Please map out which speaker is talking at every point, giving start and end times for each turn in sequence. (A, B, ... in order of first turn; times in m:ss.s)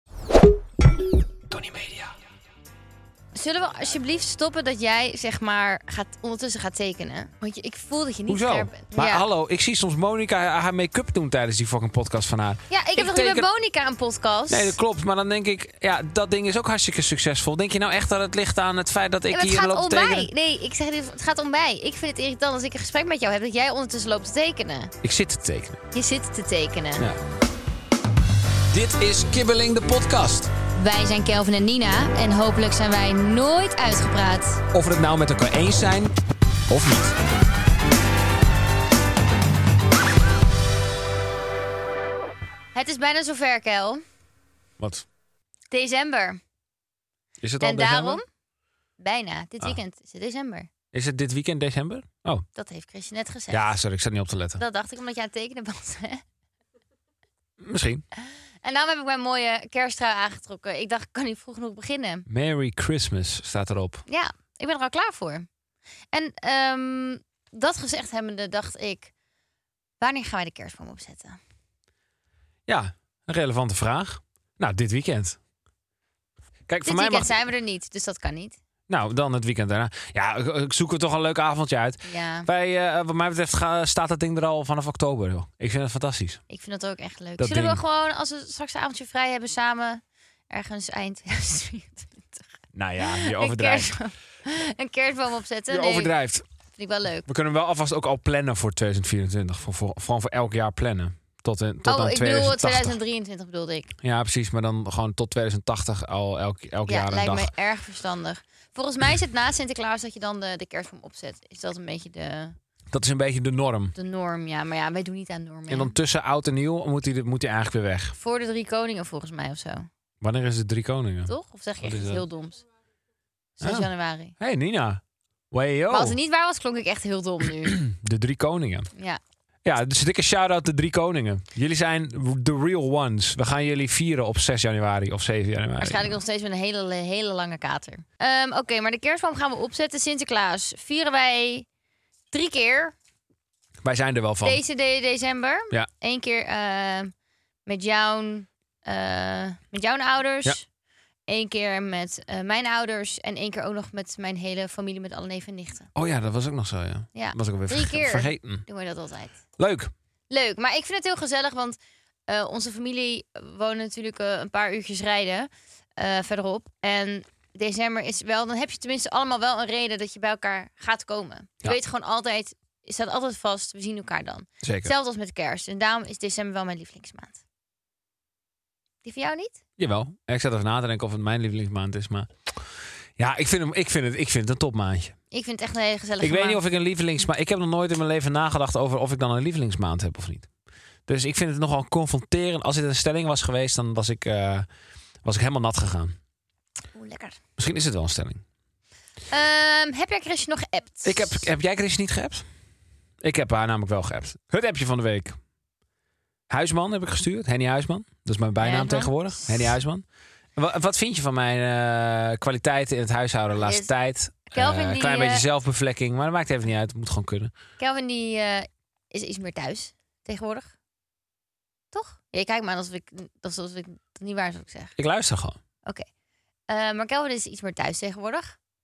0:01.5-0:02.1 A
0:03.3-0:09.2 B
0:08.3-0:13.5 A
0:12.7-0:14.8 B
0:14.5-0:20.3 A
0:19.3-0:24.9 B
0:25.0-0:25.8 A
0:25.9-0:27.0 B
0:28.7-0:30.5 A
0:30.7-0:34.6 B
0:34.7-0:36.1 A
0:36.7-0:37.2 A
0:42.7-0:44.0 B
0:44.8-0:45.0 A
0:45.7-0:46.4 B
0:47.4-0:48.2 A
0:47.6-0:48.2 B
0:49.0-0:50.7 B
0:50.9-0:52.4 A
0:52.6-0:53.7 B
0:53.5-0:54.6 A
0:54.6-0:56.2 B
0:57.6-0:58.0 A
0:58.2-1:02.3 B
1:02.3-1:04.0 A
1:04.1-1:05.5 B
1:06.1-1:09.1 B
1:10.0-1:11.4 B
1:12.7-1:15.4 A
1:16.7-1:17.3 A
1:16.8-1:18.6 B
1:18.9-1:26.4 A
1:22.0-1:22.5 B
1:26.5-1:32.4 B
1:27.4-1:27.8 A
1:32.7-1:33.9 A
1:33.0-1:36.1 B
1:35.7-1:36.4 A
1:36.8-1:37.3 B
1:37.3-1:43.0 A
1:41.8-1:43.9 B
1:44.0-1:47.5 A
1:46.9-1:52.6 B
1:52.9-1:53.9 A
1:53.9-1:55.9 B
1:55.7-1:58.2 A
1:58.1-1:59.9 B
2:00.2-2:02.2 A
2:01.3-2:02.6 B
2:03.6-2:04.3 B
2:03.6-2:06.2 A
2:05.9-2:07.8 B
2:07.6-2:08.9 A
2:09.6-2:16.2 A
2:15.8-2:21.6 B
2:22.3-2:22.9 B
2:23.8-2:24.6 A
2:24.4-2:27.1 B
2:27.6-2:30.6 B
2:31.3-2:35.9 B
2:35.9-2:38.6 A
2:37.1-2:39.4 B
2:39.6-2:39.9 A
2:40.3-2:57.4 B
2:54.6-2:54.9 A
2:59.0-2:59.6 B
2:59.8-3:02.3 A
3:03.2-3:05.2 A
3:05.3-3:06.6 B
3:06.2-3:10.5 A
3:11.1-3:14.7 A
3:15.2-3:16.2 A
3:16.9-3:17.4 B
3:17.6-3:18.4 A
3:19.3-3:21.5 B
3:21.0-3:22.4 A
3:23.2-3:25.4 A
3:26.5-3:30.0 A
3:28.6-3:29.7 B
3:30.6-3:37.5 A
3:33.6-3:33.9 B
3:34.5-3:35.4 B
3:37.8-3:40.7 B
3:41.9-3:45.0 B
3:45.0-3:45.6 A
3:46.7-3:48.6 B